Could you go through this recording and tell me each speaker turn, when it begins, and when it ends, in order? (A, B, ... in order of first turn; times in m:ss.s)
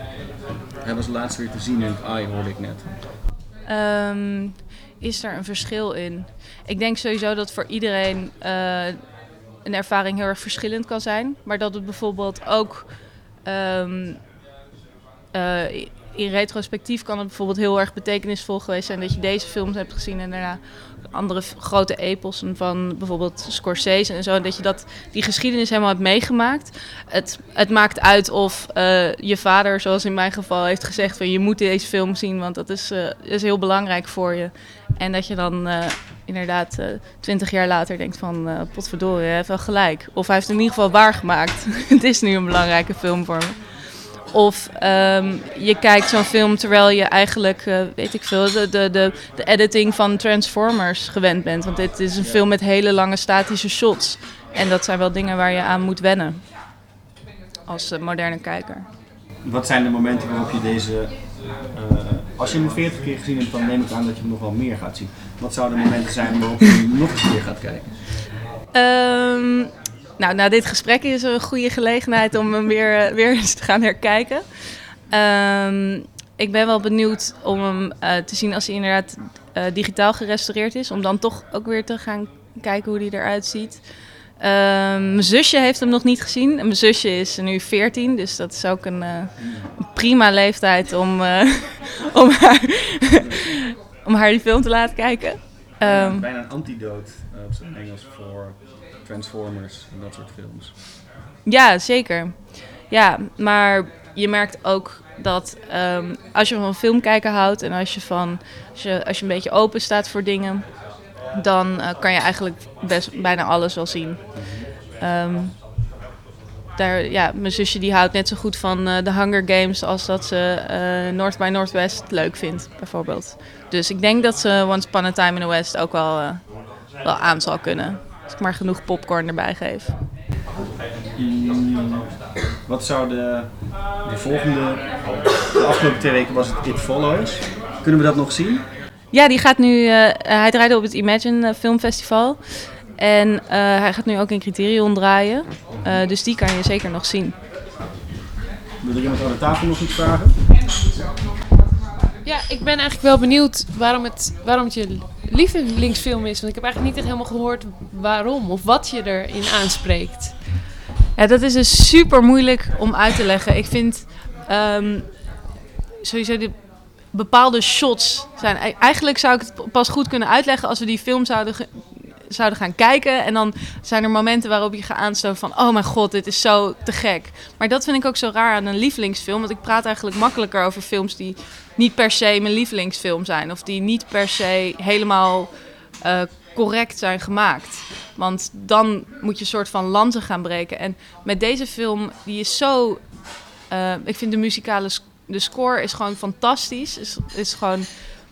0:00.8-0:02.9 A
0:03.7-0:09.0 B
0:09.6-0:12.9 B
0:13.4-0:14.2 B
0:15.3-0:20.6 B
0:21.1-0:43.6 B
0:44.3-0:56.4 B
0:57.7-0:58.9 B
0:59.4-1:07.9 A
1:08.7-1:14.4 B
1:15.1-1:23.8 B
1:24.4-1:36.3 B
1:29.4-1:29.7 A
1:35.8-1:40.7 A
1:41.4-1:50.8 B
1:51.3-1:54.3 B
1:54.3-1:54.7 A
1:55.0-1:55.6 B
1:56.8-2:09.9 B
2:11.2-2:12.0 A
2:12.6-2:15.0 A
2:15.6-2:18.6 A
2:19.1-2:22.4 B
2:23.0-2:27.4 B
2:25.7-2:26.0 A
2:28.8-2:30.4 A
2:32.2-2:40.4 C
2:41.2-2:45.2 B
2:46.0-2:51.8 B
2:52.3-3:05.5 B
3:06.0-3:13.2 B
3:13.7-3:17.9 B